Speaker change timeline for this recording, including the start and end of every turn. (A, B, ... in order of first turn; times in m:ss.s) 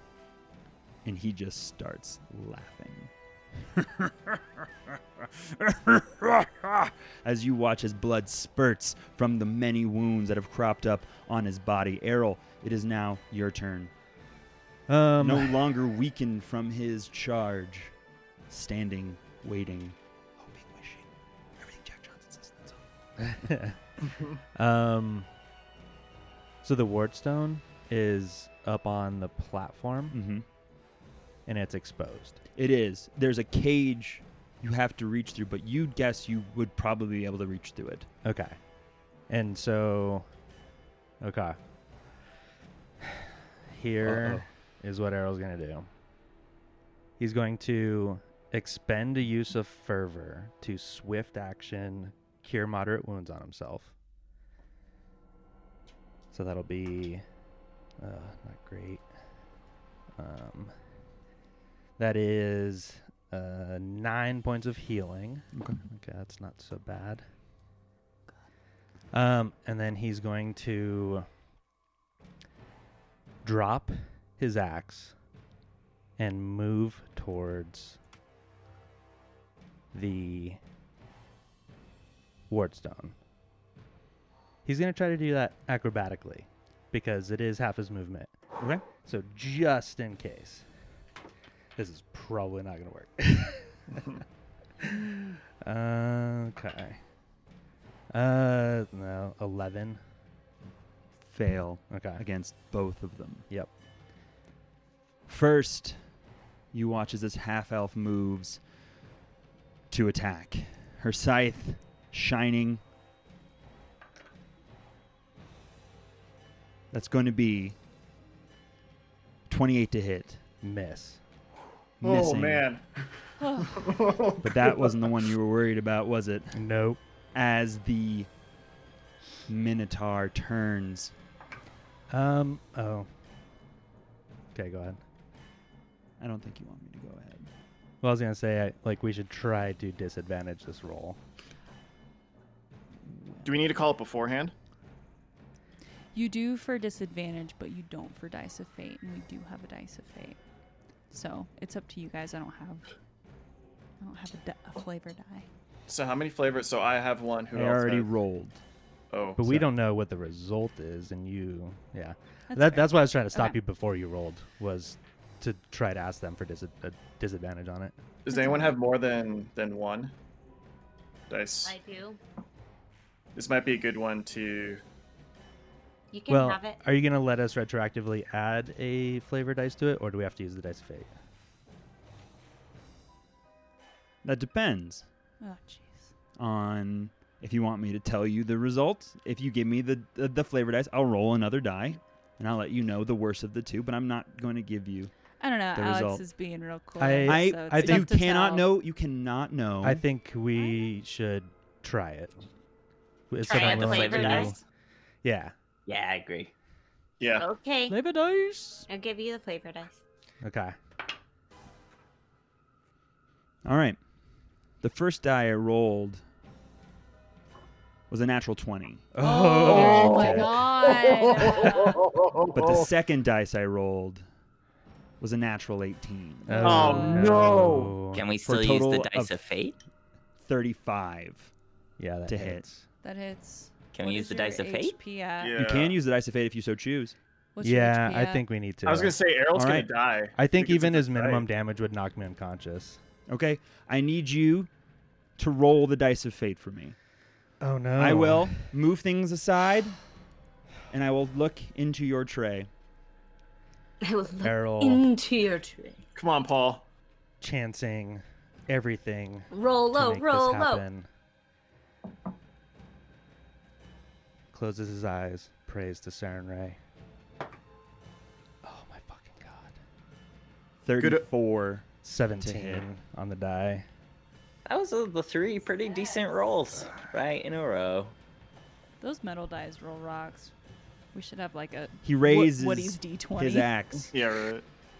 0:01.0-0:13.9 A
0:14.9-0:15.6 B
0:15.2-0:17.9 A
0:18.5-0:21.1 A
0:21.6-0:22.8 A
0:23.2-0:23.8 B
0:24.6-0:25.3 B
0:26.6-0:30.2 B
0:30.1-0:30.4 A
0:31.5-0:32.4 B
0:32.6-0:38.1 A
0:38.2-0:38.6 B
0:39.3-0:40.3 B
0:41.2-0:41.6 B
0:43.7-0:45.9 B
0:44.0-0:44.5 A
0:47.2-0:53.9 B
0:56.3-0:57.2 B
0:58.0-0:59.0 B
1:00.2-1:00.7 B
1:02.0-1:07.2 B
1:05.5-1:05.8 A
1:09.1-1:11.3 B
1:13.4-1:15.1 B
1:16.2-1:18.0 B
1:19.9-1:20.6 B
1:22.5-1:23.2 B
1:24.6-1:28.3 B
1:28.6-1:28.8 A
1:28.9-1:30.7 B
1:31.8-1:34.1 B
1:34.8-1:35.1 B
1:35.6-1:37.0 B
1:38.1-1:40.0 B
1:41.2-1:43.5 A
1:41.9-1:42.2 B
1:45.3-1:46.0 A
1:46.7-1:48.6 A
1:49.9-1:52.8 A
1:56.9-1:57.8 A
1:59.5-2:00.4 A
2:00.6-2:01.2 B
2:02.0-2:02.7 A
2:02.0-2:02.8 C
2:03.4-2:03.8 D
2:03.6-2:05.1 C
2:04.4-2:06.6 A
2:06.5-2:07.0 B
2:07.3-2:08.3 A
2:09.5-2:11.1 A
2:12.1-2:13.1 B
2:14.5-2:15.0 B
2:16.2-2:17.5 A
2:18.0-2:21.2 B
2:23.0-2:23.5 A
2:23.4-2:24.5 C
2:26.1-2:30.4 D
2:31.1-2:32.9 D
2:34.0-2:35.5 D
2:35.9-2:38.1 C
2:37.5-2:38.6 A
2:39.1-2:39.4 C
2:39.4-2:48.0 B
2:42.5-2:43.6 D
2:48.2-2:50.1 C
2:48.3-2:48.8 D
2:51.3-2:51.8 C
2:51.6-2:52.2 E
2:53.4-2:54.8 C
2:56.1-2:56.8 E
2:56.3-3:01.1 B
3:04.2-3:05.0 A
3:05.4-3:06.1 D
3:06.4-3:15.1 A
3:15.4-3:18.7 D
3:15.7-3:16.2 A
3:17.0-3:18.2 B
3:17.3-3:20.0 A
3:19.8-3:22.4 B
3:23.3-3:24.6 B
3:23.4-3:24.5 E
3:23.4-3:24.6 F
3:25.2-3:25.5 B
3:25.9-3:26.5 F
3:27.2-3:27.5 C
3:27.4-3:28.0 E
3:27.9-3:28.9 B
3:28.9-3:30.0 E
3:30.4-3:30.8 B
3:33.6-3:34.0 A
3:34.8-3:36.2 A
3:38.1-3:39.1 A
3:39.1-3:40.6 B
3:39.2-3:42.0 D
3:39.7-3:42.9 C
3:42.5-3:44.3 A
3:45.2-3:46.9 A
3:46.5-3:48.2 B
3:46.5-3:47.3 D
3:46.6-3:47.9 C
3:48.1-3:49.8 F
3:48.4-3:49.4 A
3:50.4-3:51.5 A
3:52.0-3:52.8 B
3:52.3-3:52.7 A
3:53.0-3:55.6 D
3:53.9-3:55.0 F
3:55.4-3:56.0 C
3:55.6-3:57.2 A
3:57.6-3:58.4 D
3:57.6-3:59.2 B
3:58.8-4:01.5 C
3:59.5-3:59.9 A
4:00.4-4:03.0 B
4:03.3-4:04.7 A
4:05.4-4:07.0 A
4:07.6-4:08.7 B
4:08.0-4:10.0 A
4:10.9-4:12.7 A
4:14.0-4:16.0 E
4:14.4-4:15.1 B
4:16.2-4:16.8 C
4:17.4-4:21.1 B
4:19.5-4:20.9 E
4:24.5-4:26.8 B
4:28.6-4:29.8 B
4:30.8-4:31.9 A
4:32.0-4:33.9 B
4:32.4-4:32.9 A
4:34.7-4:38.1 F
4:39.0-4:40.5 D
4:41.1-4:43.7 D
4:42.0-4:44.1 A
4:44.1-4:44.6 C